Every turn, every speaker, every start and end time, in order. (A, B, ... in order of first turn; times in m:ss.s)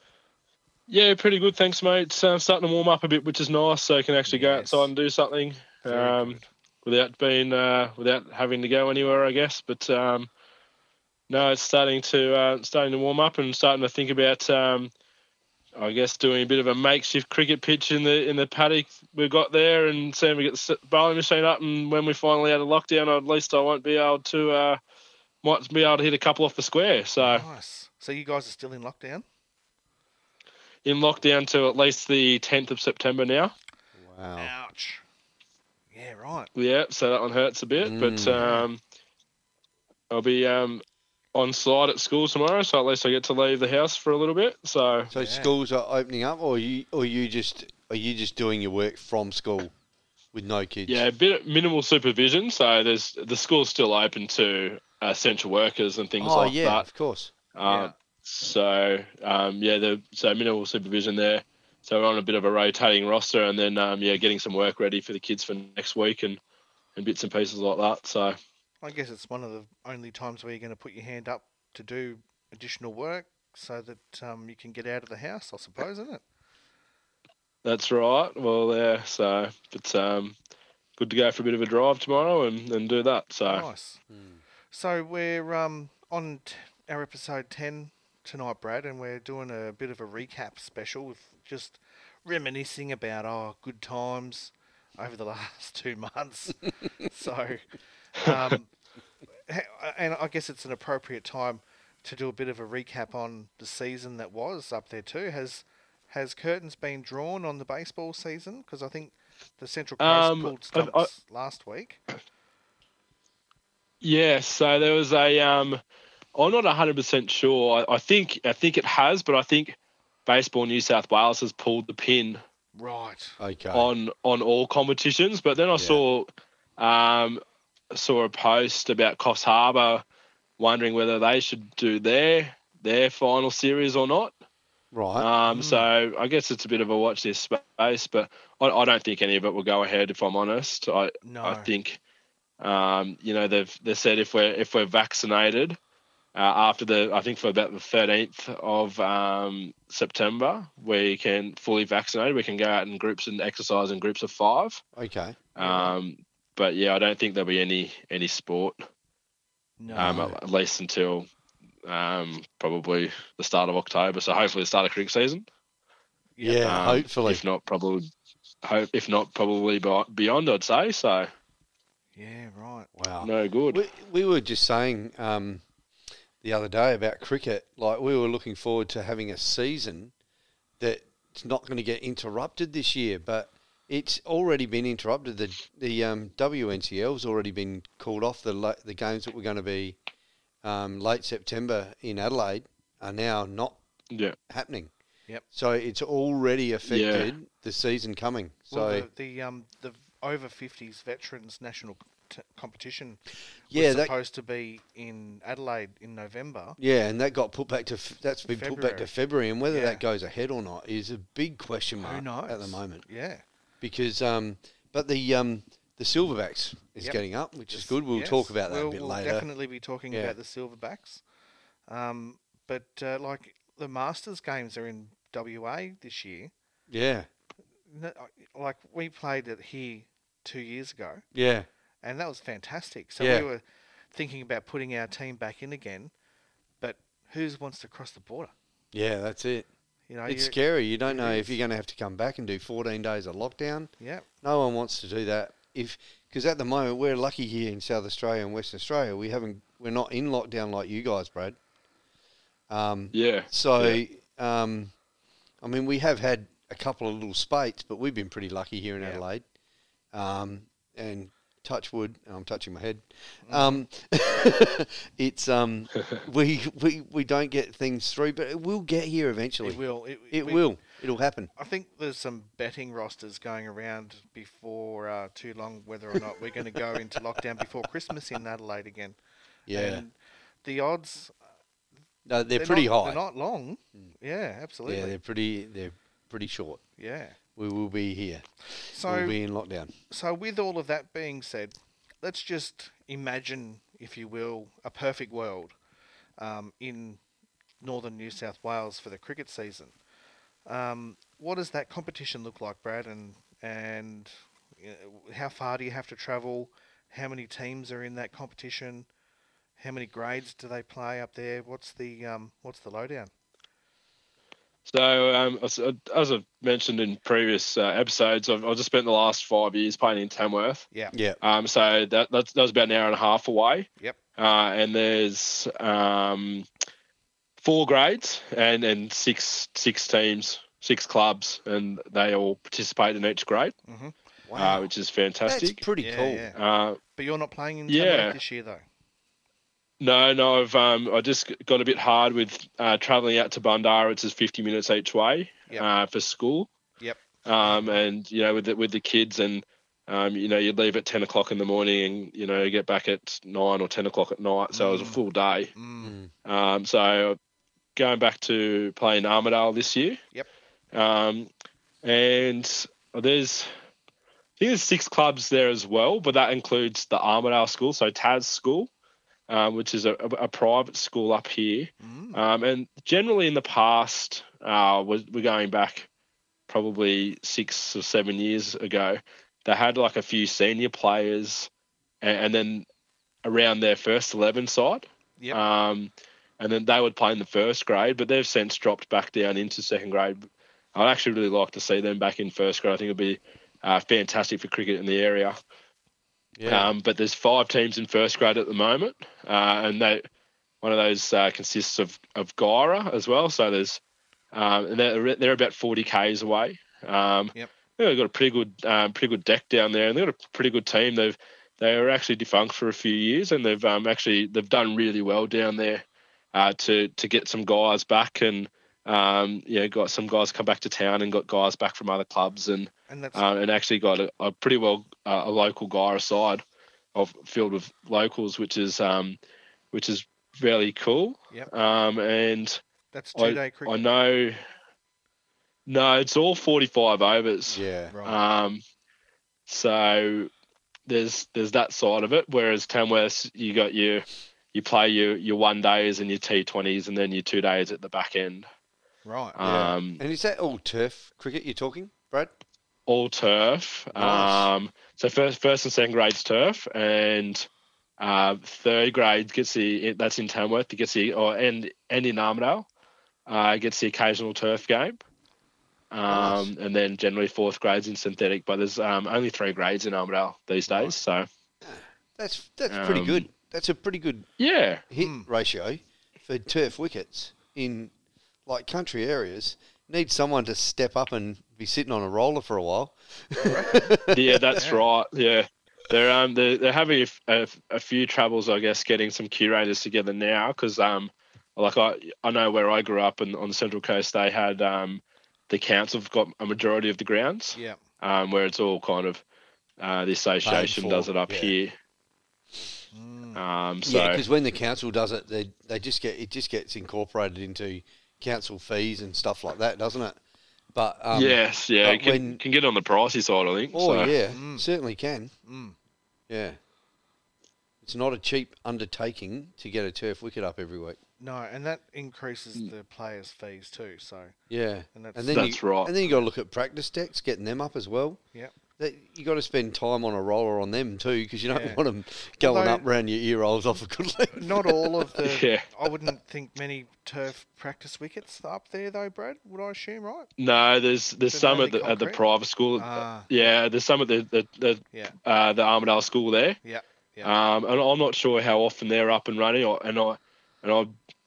0:00.9-0:10.3 A
0:04.3-0:04.9 B
0:05.8-0:06.5 B
0:11.3-0:14.9 A
0:15.8-0:24.8 A
0:25.4-0:27.4 A
0:27.2-0:29.2 B
0:30.8-0:33.5 A
0:34.0-0:34.5 C
0:34.4-0:35.0 B
0:35.9-0:36.5 B
0:36.6-0:38.8 A
0:37.8-0:38.4 C
0:38.4-0:38.7 B
0:40.1-0:40.8 A
0:41.3-0:45.1 A
0:45.1-0:45.5 B
0:45.1-0:49.7 C
0:50.3-0:51.0 C
0:50.9-0:56.8 A
0:56.2-0:57.3 C
0:57.5-1:06.4 A
0:57.6-0:57.9 B
1:07.0-1:08.4 A
1:08.8-1:16.2 B
1:17.6-1:20.3 A
1:21.0-1:23.7 A
1:23.4-1:24.0 B
1:24.1-1:24.4 C
1:24.7-1:38.7 B
1:39.5-1:52.0 B
1:50.0-1:51.1 A
1:54.0-1:55.8 A
1:56.3-2:02.4 A
2:02.7-2:03.4 B
2:03.4-2:03.9 C
2:03.7-2:07.4 A
2:05.8-2:06.0 C
2:07.9-2:10.0 A
2:10.6-2:14.3 A
2:14.9-2:15.3 C
2:15.2-2:22.0 A
2:15.5-2:15.9 B
2:21.2-2:21.7 B
2:22.6-2:25.8 A
2:26.3-2:34.8 A
2:35.0-2:35.5 C
2:35.6-2:38.8 A
2:35.6-2:35.9 B
2:39.8-2:40.3 B
2:39.9-2:40.3 C
2:40.0-2:41.3 A
2:41.8-2:45.4 A
2:46.4-2:47.0 B
2:46.4-2:47.4 C
2:46.6-2:48.1 A
2:48.6-2:51.3 A
2:52.2-2:52.9 B
2:52.9-2:55.6 C
2:53.2-2:53.8 A
2:56.4-3:00.1 C
3:00.8-3:10.0 C
3:10.6-3:13.8 C
3:14.1-3:14.4 A
3:14.5-3:14.9 C
3:15.5-3:19.1 C
3:16.9-3:17.3 A
3:18.7-3:26.8 B
3:23.7-3:24.1 C
3:26.8-3:33.0 C
3:28.5-3:29.1 B
3:29.7-3:30.0 B
3:32.0-3:33.4 B
3:33.8-3:39.5 C
3:37.0-3:41.2 B
3:40.1-3:40.4 C
3:41.9-3:46.5 B
3:46.9-3:47.3 C
3:47.9-3:51.2 B
3:51.3-3:51.7 C
3:52.0-3:53.6 B
3:53.2-3:53.4 C
3:54.1-3:56.1 B
3:56.8-3:58.5 B
3:58.9-3:59.7 C
4:00.1-4:01.6 B
4:00.3-4:11.6 C
4:04.0-4:04.2 B
4:12.7-4:14.9 C
4:13.1-4:14.0 A
4:15.6-4:19.4 C
4:20.1-4:31.5 C
4:23.4-4:23.8 B
4:29.6-4:30.6 B
4:31.6-4:39.2 B
4:39.7-4:40.0 C
4:39.7-4:41.3 B
4:42.2-4:43.2 C
4:42.5-4:45.2 B
4:44.8-4:46.8 C
4:47.0-4:47.4 B
4:47.6-4:48.4 C
4:48.8-4:49.4 B
4:49.0-4:49.9 C
4:50.1-4:55.7 B
4:56.4-4:57.2 B
4:57.8-5:00.0 B
5:00.6-5:09.1 B
5:09.8-5:13.3 B
5:14.8-5:20.8 A
5:21.1-5:21.4 C
5:21.4-5:26.6 A
5:27.6-5:33.7 A
5:33.8-5:34.2 B
5:34.5-5:34.9 C
5:34.6-5:35.8 A
5:35.4-5:36.5 C
5:36.0-5:36.6 B
5:36.6-5:37.0 A
5:37.2-5:38.8 B
5:37.9-5:38.4 A
5:40.0-5:46.7 A
5:47.0-5:48.0 B
5:47.4-5:55.7 A
5:54.7-5:55.2 B
5:55.7-5:56.2 B
5:56.0-5:56.3 C
5:56.4-5:57.4 A
5:58.0-6:00.2 A
6:00.9-6:01.5 A
6:02.0-6:03.7 A
6:04.6-6:08.9 A
6:09.5-6:16.1 A
6:12.0-6:12.4 B
6:16.7-6:21.7 A
6:22.2-6:22.8 A
6:23.4-6:35.6 A
6:36.6-6:36.9 C
6:36.6-6:40.2 A
6:40.8-6:44.0 A
6:44.5-7:06.6 A
7:03.1-7:03.4 B
7:07.1-7:09.4 A
7:09.9-7:12.8 A
7:13.1-7:14.0 B
7:13.4-7:14.6 A
7:15.8-7:18.8 A
7:17.7-7:18.1 C
7:18.1-7:18.4 B
7:19.7-7:20.5 A
7:21.1-7:28.7 A
7:29.2-7:29.6 B
7:29.6-7:30.2 A
7:29.6-7:32.5 C
7:33.1-7:37.7 A
7:34.1-7:34.7 C
7:38.2-7:42.9 A
7:43.5-7:45.2 A
7:46.1-7:51.4 A
7:46.3-7:46.7 C
7:51.8-7:54.4 C
7:52.9-7:53.5 A
7:54.6-7:55.0 A
7:55.1-7:58.1 C
7:55.2-7:55.5 B
7:58.6-8:04.8 C
8:03.6-8:04.0 B
8:04.3-8:19.4 A
8:04.7-8:05.0 B
8:17.7-8:18.0 B
8:20.0-8:21.9 A
8:20.6-8:21.7 C
8:23.1-8:23.6 B
8:23.6-8:24.4 A
8:24.0-8:30.4 C
8:30.9-8:32.6 C
8:31.3-8:34.3 A
8:33.9-8:35.5 C
8:34.5-8:34.8 B
8:35.6-8:36.0 B
8:36.5-8:36.8 C
8:38.0-8:41.2 C
8:41.4-8:44.5 B
8:44.7-8:48.4 C
8:45.1-8:46.4 B
8:45.5-8:46.1 A
8:49.0-8:55.3 C
8:51.7-8:52.0 B
8:52.6-8:53.0 B
8:54.5-9:00.5 B
8:55.4-8:55.9 A
9:00.6-9:06.8 A
9:01.5-9:02.4 B
9:03.0-9:03.5 B
9:06.8-9:07.5 B
9:07.4-9:11.1 A